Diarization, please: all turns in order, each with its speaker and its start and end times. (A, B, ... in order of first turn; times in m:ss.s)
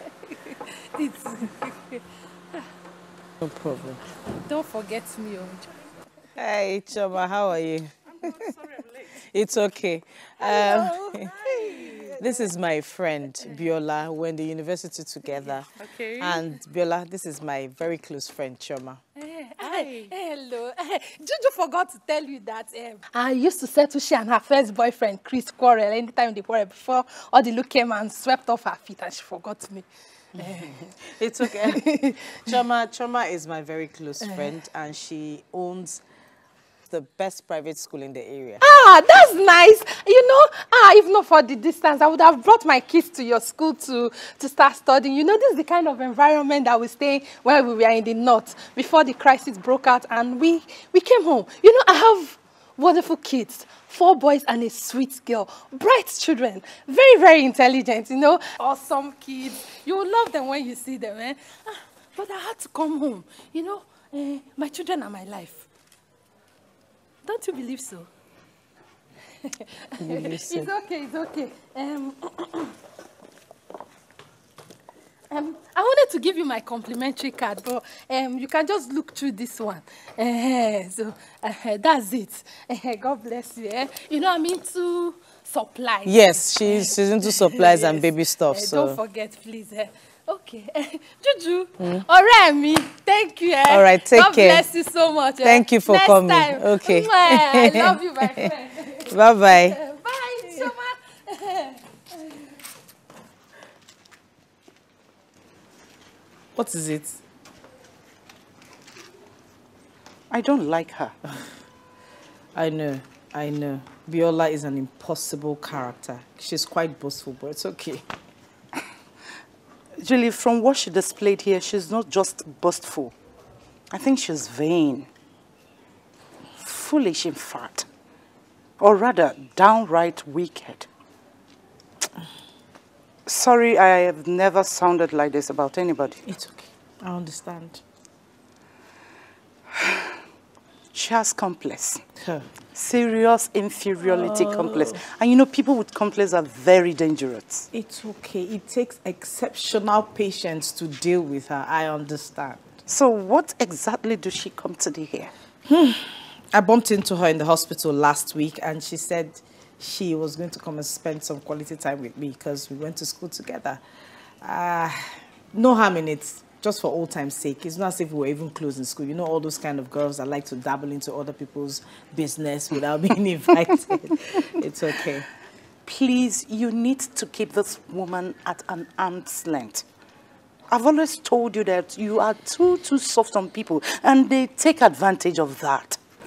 0:00.2-0:02.0 A
0:03.4-0:04.0 B
0:04.2-0:05.8 A
0:06.4-0:08.5 B
0:09.1-0:11.5 B
0:10.4-0:12.4 A
0:12.2-0:19.0 B
0:19.2-0:30.9 A
0:31.1-0:36.0 B
0:31.4-0:32.3 A
0:36.9-0:38.6 B
0:38.6-1:05.7 A
1:07.2-1:08.1 A
1:09.4-1:12.7 A
1:10.0-1:10.7 B
1:15.3-1:42.4 A
1:26.0-1:29.0 B
1:33.7-1:34.6 B
1:35.4-1:38.5 B
1:39.0-1:39.8 B
1:46.5-1:47.2 B
1:50.3-1:51.2 C
1:52.5-1:58.0 B
2:00.0-2:03.1 C
2:03.9-2:05.1 C
2:06.5-2:07.9 C
2:08.8-2:10.9 C
2:13.2-2:16.2 C
2:16.2-2:17.8 B
2:20.9-2:22.0 C
2:22.2-2:22.5 B
2:22.7-2:27.7 C
2:24.0-2:25.0 B
2:27.7-2:32.8 B
2:32.9-2:35.3 C
2:35.7-2:43.8 B
2:44.4-2:55.3 B
2:55.8-2:59.8 C
3:00.7-3:06.0 C